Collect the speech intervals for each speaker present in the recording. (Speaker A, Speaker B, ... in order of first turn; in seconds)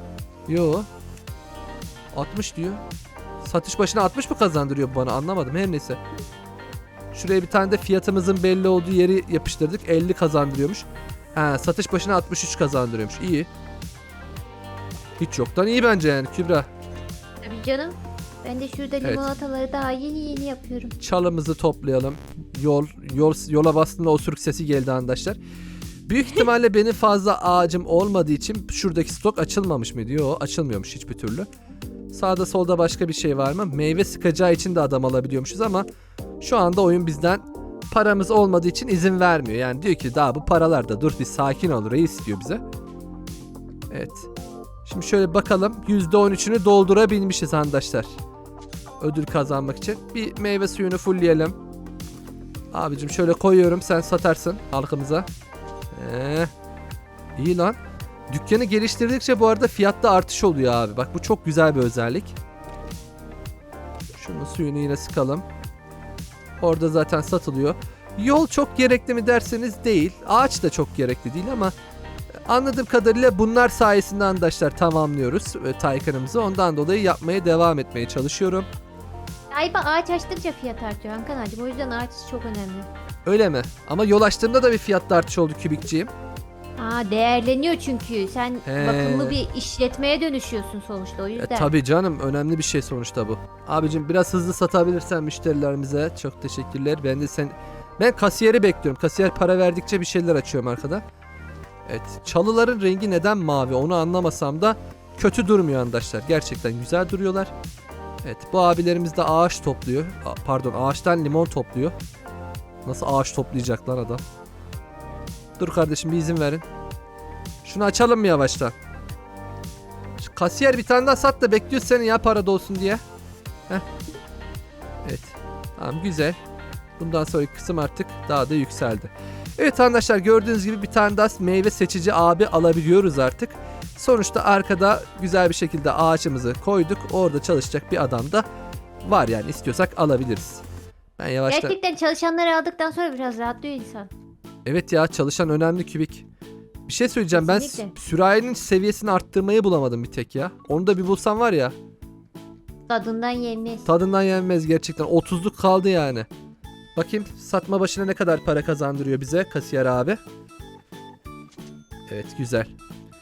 Speaker A: 0.5-0.9, 2.1-2.8, 3.4-6.0, 7.1-13.5, 15.2-16.7, 21.0-25.4, 26.1-31.5, 32.1-35.9, 36.4-42.6, 43.9-44.3, 44.9-48.1, 49.0-51.6, 52.7-55.3, 55.9-56.5, 57.4-57.8, 58.3-62.4, 64.2-65.5, 66.6-71.7, 72.5-78.7, 83.2-86.1, 88.7-89.4, 91.3-101.0, 101.9-107.5, 108.2-112.0, 112.8-114.2, 115.6-116.7, 117.6-118.8, 120.2-123.0, 125.0-126.4, 127.0-138.5, 139.0-140.6, 141.2-141.8, 144.7-146.3, 146.9-151.8, 153.8-156.3, 157.0-160.2, 162.1-162.7
Speaker B: 17.4-20.9, 79.5-82.9, 86.8-91.7, 141.5-144.1, 147.3-147.9, 152.9-153.8